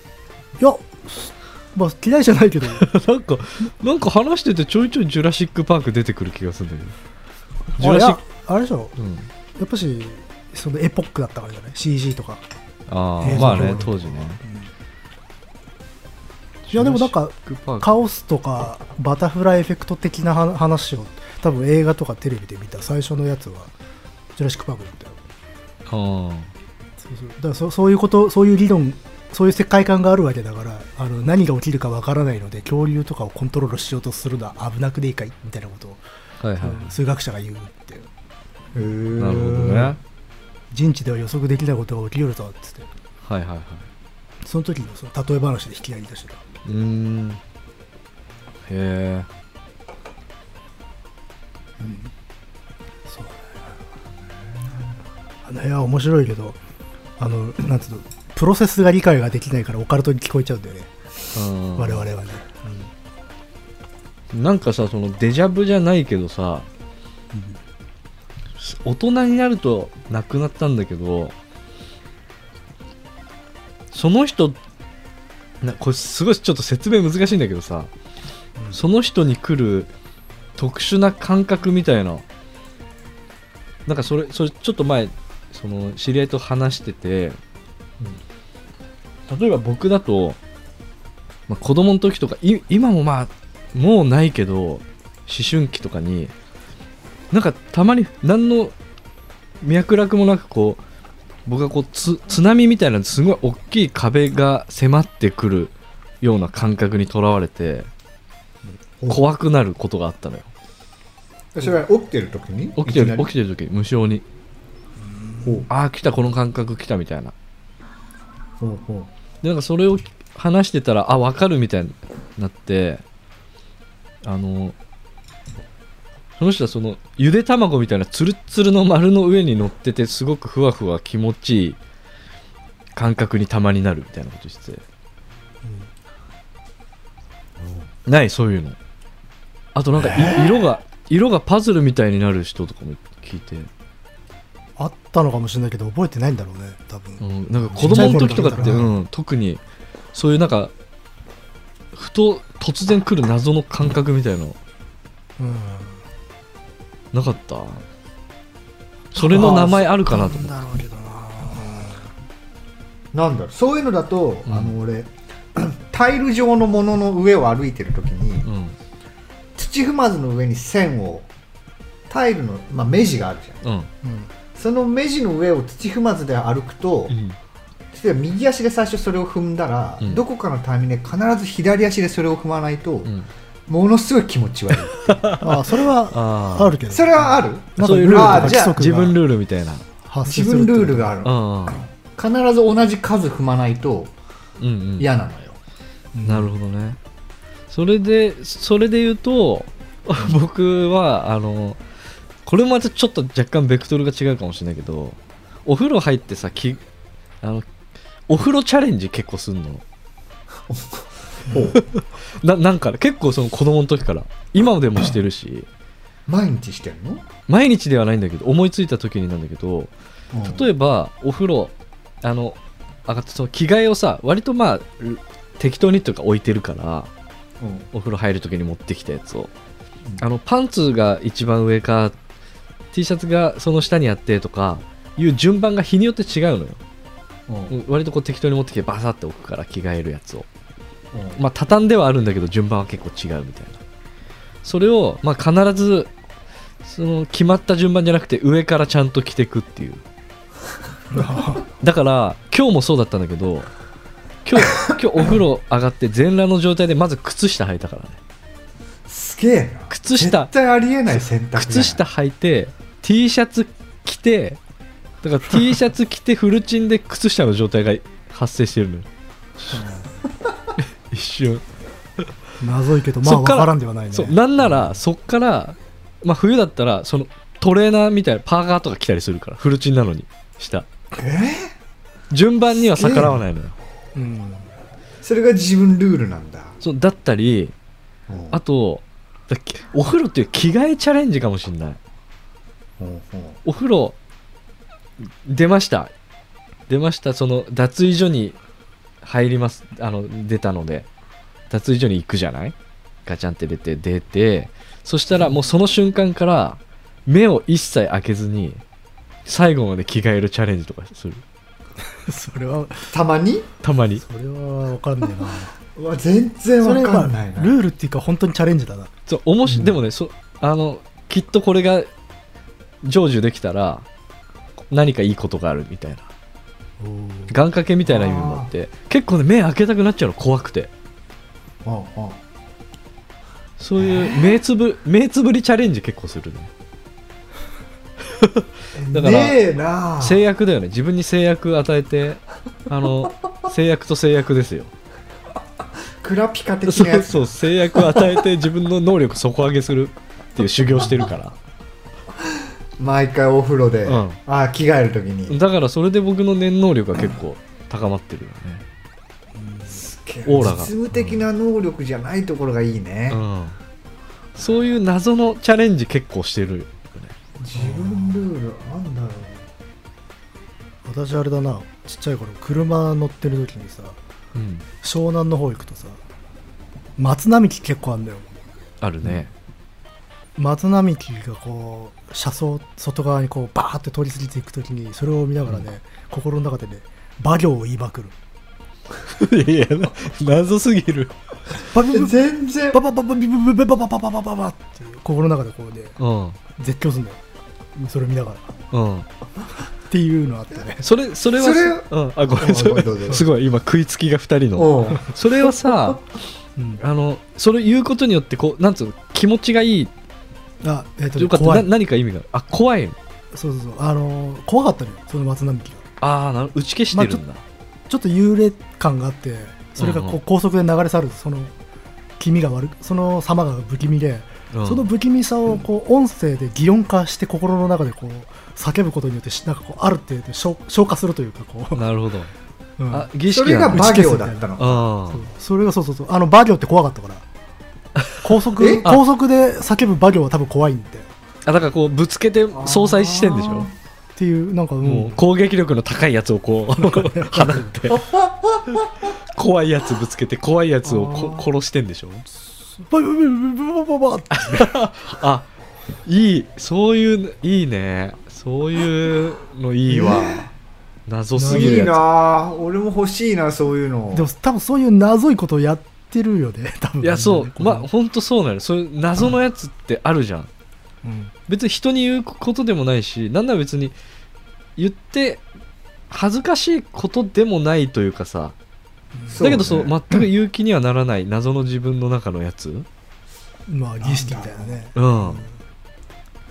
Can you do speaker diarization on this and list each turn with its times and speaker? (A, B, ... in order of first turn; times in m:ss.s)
0:00.6-0:02.9 A
0:02.7-0:07.0 B
0:07.8-0:08.2 B
0:07.8-0:08.9 A
0:09.0-0:09.3 B
0:09.6-0:12.4 A
0:12.9-0:14.4 B
0:13.2-0:14.7 A
0:16.7-0:17.9 B
0:16.7-0:23.7 A
0:24.4-0:25.2 A
0:25.9-0:26.5 B
0:27.0-0:36.0 A
0:36.4-0:36.9 B
0:36.6-0:38.1 A
0:38.7-0:40.0 C
0:39.2-0:40.0 B
0:40.7-0:42.9 A
0:43.2-0:43.9 B
0:44.4-0:46.4 A
0:46.6-0:47.4 B
0:48.7-0:49.3 B
0:51.8-0:52.1 A
0:53.1-0:53.8 A
0:55.4-0:56.6 A
0:57.2-1:00.9 A
1:01.3-1:02.1 B
1:01.8-1:02.9 A
1:04.3-1:06.7 B
1:07.3-1:07.6 A
1:08.6-1:11.4 B
1:13.9-1:14.6 B
1:15.6-1:17.9 B
1:18.7-1:19.9 B
1:20.6-1:22.2 B
1:23.9-1:27.4 B
1:29.3-1:30.4 B
1:31.5-1:36.3 B
1:37.3-1:38.7 B
1:39.6-1:40.8 B
1:41.5-1:47.9 B
1:49.0-1:49.3 C
1:49.1-1:50.5 B
1:51.5-1:53.3 C
1:52.8-1:54.2 B
1:55.0-1:55.6 A
1:55.4-1:55.7 C
1:55.7-1:57.3 B
1:58.6-1:59.1 C
1:59.4-2:03.0 B
2:04.2-2:04.8 B
2:06.4-2:11.8 B
2:13.0-2:14.8 B
2:15.6-2:15.9 A
2:18.1-2:18.8 B
2:19.8-2:23.7 B
2:20.1-2:20.6 C
2:24.8-2:28.9 A
2:27.2-2:29.6 B
2:27.8-2:28.9 C
2:30.1-2:30.7 B
2:31.9-2:34.6 B
2:35.4-2:36.0 A
2:37.1-2:37.8 B
2:39.1-2:40.5 B
2:39.2-2:42.1 A
2:39.3-2:39.9 C
2:43.1-2:48.5 C
2:44.5-2:44.7 B
2:48.4-2:48.8 B
2:49.6-2:51.3 C
2:52.1-2:53.6 C
2:53.6-2:53.9 B
2:54.0-2:54.3 A
2:54.6-2:57.2 C
2:57.1-2:57.4 B
2:57.9-3:03.1 C
3:03.7-3:05.5 C
3:04.9-3:05.6 B
3:05.4-3:09.2 A
3:06.1-3:06.8 B
3:06.9-3:08.8 C
3:07.8-3:09.8 B
3:10.0-3:11.1 A
3:10.2-3:14.1 C
3:11.2-3:11.8 B
3:14.6-3:15.1 B
3:15.0-3:15.6 C
3:16.1-3:16.5 A
3:16.2-3:17.0 B
3:17.7-3:21.8 B
3:22.4-3:26.8 B
3:27.4-3:27.7 B
3:28.3-3:29.8 B
3:30.7-3:31.8 C
3:31.5-3:31.8 A
3:31.7-3:35.7 B
3:36.3-3:37.3 C
3:37.5-3:39.9 B
3:40.3-3:40.7 C
3:40.4-3:47.1 B
3:47.6-3:47.9 C
3:47.9-3:49.5 B
3:50.2-3:52.2 B
3:52.9-3:56.8 B
3:57.5-3:57.8 C
3:57.7-4:00.5 B
4:01.1-4:01.4 C
4:01.4-4:03.8 B
4:04.6-4:06.1 B
4:06.8-4:10.0 B
4:11.1-4:11.6 A
4:11.8-4:13.7 B
4:14.4-4:18.2 B
4:19.1-4:22.0 C
4:19.9-4:20.5 B
4:21.1-4:24.6 B
4:25.2-4:29.1 B
4:29.7-4:30.0 C
4:30.8-4:31.6 B
4:32.6-4:34.4 A
4:33.2-4:40.9 B
4:41.1-4:41.7 C
4:42.3-4:43.8 B
4:42.8-4:43.4 C
4:44.2-4:44.7 A
4:45.2-4:46.8 C
4:46.8-4:47.7 B
4:48.3-4:48.6 C
4:48.5-4:52.0 B
4:53.0-4:53.6 C
4:53.6-4:54.2 B
4:55.2-4:56.1 B
4:56.9-4:58.6 B
4:59.2-5:01.1 B
5:01.7-5:02.8 B
5:03.3-5:08.8 B
5:09.5-5:11.4 B
5:12.2-5:13.1 A
5:13.1-5:13.7 C
5:13.8-5:14.2 B
5:14.2-5:15.7 A
5:16.0-5:17.8 C
5:16.8-5:19.1 A
5:19.3-5:22.1 B
5:19.7-5:20.0 C
5:23.0-5:24.1 B
5:24.9-5:26.3 B
5:27.0-5:27.5 A
5:27.5-5:30.9 B
5:28.0-5:28.7 C
5:31.8-5:32.4 C
5:33.8-5:36.7 B
5:34.0-5:34.6 C
5:38.3-5:39.6 B
5:39.0-5:40.4 C
5:40.2-5:44.9 B
5:46.2-5:48.4 C
5:46.9-5:51.6 B
5:51.0-5:51.3 C
5:53.0-5:55.6 C
5:54.1-5:54.4 B
5:55.5-5:58.8 B
5:59.5-6:00.0 A
5:59.9-6:03.4 C
6:00.4-6:01.3 B
6:03.3-6:03.8 B
6:04.6-6:07.3 B
6:07.6-6:09.7 C
6:07.8-6:08.4 A
6:11.0-6:14.2 A
6:14.6-6:14.8 B
6:15.0-6:16.2 A
6:17.2-6:18.5 A
6:19.0-6:19.5 B
6:20.6-6:28.4 A
6:29.3-6:31.4 B
6:31.8-6:32.4 A
6:32.1-6:33.0 C
6:32.9-6:36.2 A
6:36.2-6:36.6 B
6:36.8-6:37.4 A
6:38.0-6:38.7 A
6:38.9-6:39.3 B
6:40.1-6:41.0 A
6:41.0-6:46.2 B
6:41.5-6:43.5 C
6:44.8-6:46.1 C
6:46.8-6:47.0 A
6:47.0-6:50.1 B
6:50.8-6:51.9 A
6:51.4-6:53.2 B
6:53.5-6:56.0 A
6:56.2-6:57.6 B
6:57.1-6:57.4 A
6:58.1-7:01.7 A
7:00.0-7:00.4 B
7:02.4-7:12.0 A
7:04.7-7:05.1 B
7:12.0-7:12.5 B
7:13.0-7:13.3 A
7:13.1-7:14.3 B
7:13.5-7:15.1 C
7:13.8-7:14.7 A
7:14.8-7:15.4 B
7:15.3-7:17.5 A
7:18.2-7:18.4 B
7:18.4-7:21.3 A
7:18.8-7:19.1 C
7:21.7-7:23.9 B
7:22.7-7:23.9 C
7:24.4-7:25.4 A
7:25.0-7:28.3 B
7:27.0-7:28.0 A
7:28.1-7:29.0 C
7:29.5-7:32.5 B
7:31.0-7:31.7 C
7:32.9-7:34.9 A
7:34.5-7:35.7 B
7:36.2-7:40.7 B
7:40.1-7:40.7 C
7:41.3-7:42.2 B
7:41.6-7:42.2 A
7:41.6-7:44.5 C
7:44.3-7:48.1 A
7:47.2-7:50.7 B
7:51.2-7:51.5 A
7:51.7-7:54.2 B
7:55.0-7:55.6 B
7:56.3-7:58.8 B
7:59.4-7:59.8 A
7:59.5-8:00.2 C
7:59.6-8:03.1 B
8:03.9-8:05.8 A
8:04.2-8:04.9 C
8:05.2-8:05.7 B